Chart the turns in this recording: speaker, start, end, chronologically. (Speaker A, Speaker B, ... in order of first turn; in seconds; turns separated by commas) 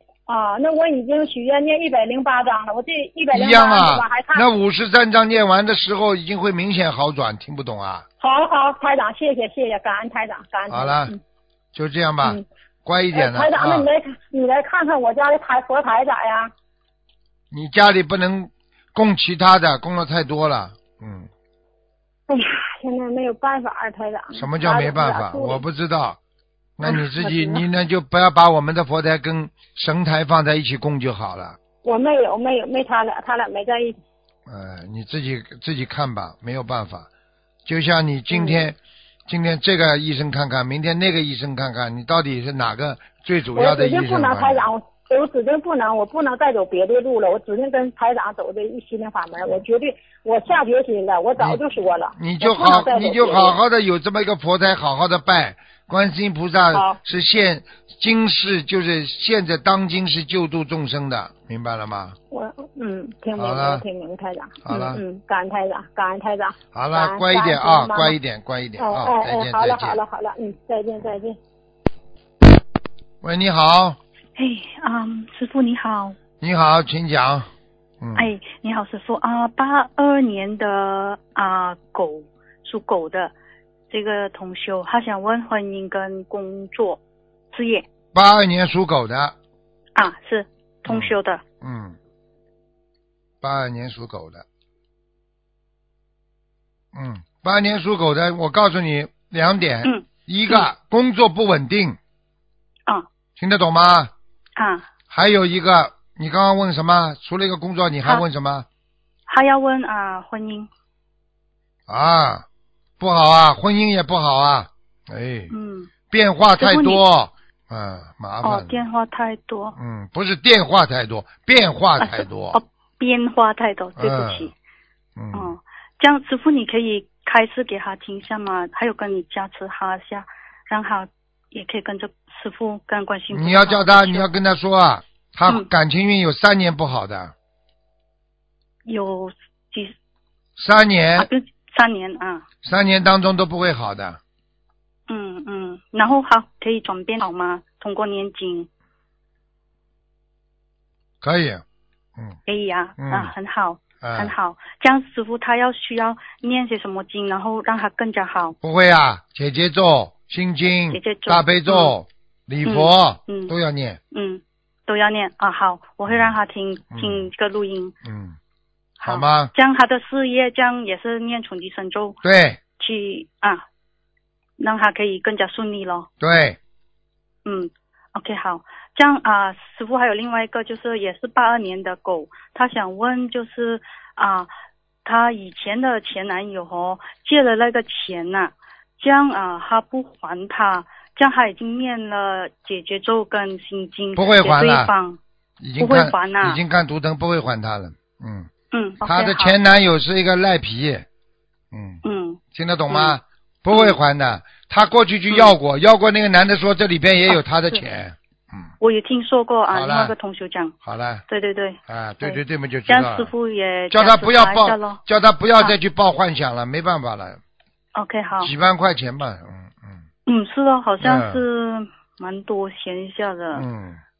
Speaker A: 0.3-4.4, Speaker B: 3.3-8.1, Speaker A: 8.2-11.2, Speaker B: 10.7-11.1, Speaker B: 11.7-13.9, Speaker A: 13.1-16.5, Speaker B: 17.5-21.3, Speaker A: 22.3-25.6, Speaker B: 24.3-26.2, Speaker B: 26.8-31.6, Speaker A: 26.8-27.6, Speaker A: 31.8-34.0, Speaker B: 34.5-37.1, Speaker B: 37.6-44.7, Speaker A: 38.3-38.6, Speaker A: 43.5-53.6, Speaker B: 52.2-62.1, Speaker A: 56.7-57.0, Speaker A: 62.3-68.2, Speaker B: 63.4-63.8, Speaker B: 64.6-65.0, Speaker B: 66.7-70.0, Speaker A: 68.8-71.4, Speaker B: 73.2-74.0, Speaker C: 74.3-76.2, Speaker B: 76.4-77.5, Speaker B: 78.0-78.3, Speaker C: 78.2-83.3, Speaker C: 83.9-87.8, Speaker B: 88.1-89.3, Speaker C: 89.9-91.4, Speaker B: 90.8-92.0, Speaker B: 93.4-94.4, Speaker B: 96.9-102.0, Speaker C: 99.8-100.7, Speaker B: 103.4-104.1, Speaker C: 104.5-104.9, Speaker B: 105.1-108.7, Speaker C: 109.3-110.7, Speaker B: 111.9-112.4, Speaker B: 113.0-115.5, Speaker C: 115.5-115.9, Speaker B: 116.1-118.8, Speaker C: 116.6-117.0, Speaker C: 118.4-119.8, Speaker B: 119.8-122.6, Speaker C: 122.0-124.5, Speaker B: 124.0-124.5, Speaker B: 125.2-125.5, Speaker C: 125.3-134.3, Speaker B: 133.3-137.3, Speaker C: 138.8-139.9, Speaker B: 140.6-141.3, Speaker C: 141.2-142.4, Speaker B: 142.6-144.2, Speaker C: 145.1-148.7, Speaker B: 151.2-151.6, Speaker C: 152.4-158.6, Speaker B: 153.0-153.3, Speaker B: 154.0-154.3, Speaker B: 158.6-164.0, Speaker C: 160.9-161.9, Speaker C: 162.6-163.5, Speaker C: 164.1-167.9, Speaker B: 166.1-166.3, Speaker B: 166.9-167.3, Speaker B: 168.0-168.4, Speaker C: 169.0-172.2, Speaker B: 169.0-169.5, Speaker B: 172.2-172.6, Speaker C: 172.8-173.6, Speaker C: 174.6-176.1, Speaker B: 176.2-176.6, Speaker C: 177.4-184.5, Speaker C: 185.0-195.2, Speaker B: 194.2-194.9, Speaker B: 195.6-198.5, Speaker C: 195.8-196.6, Speaker C: 198.7-199.6, Speaker B: 199.0-201.1, Speaker B: 201.7-202.0, Speaker C: 202.0-203.2, Speaker B: 202.5-208.7, Speaker C: 203.7-204.0, Speaker C: 208.8-210.7, Speaker B: 209.7-210.1, Speaker B: 210.8-211.2, Speaker C: 211.3-215.0, Speaker B: 211.9-213.3, Speaker B: 213.9-217.4, Speaker C: 217.9-218.5, Speaker B: 218.4-220.0, Speaker C: 220.2-223.7, Speaker B: 221.0-221.4, Speaker B: 223.5-224.0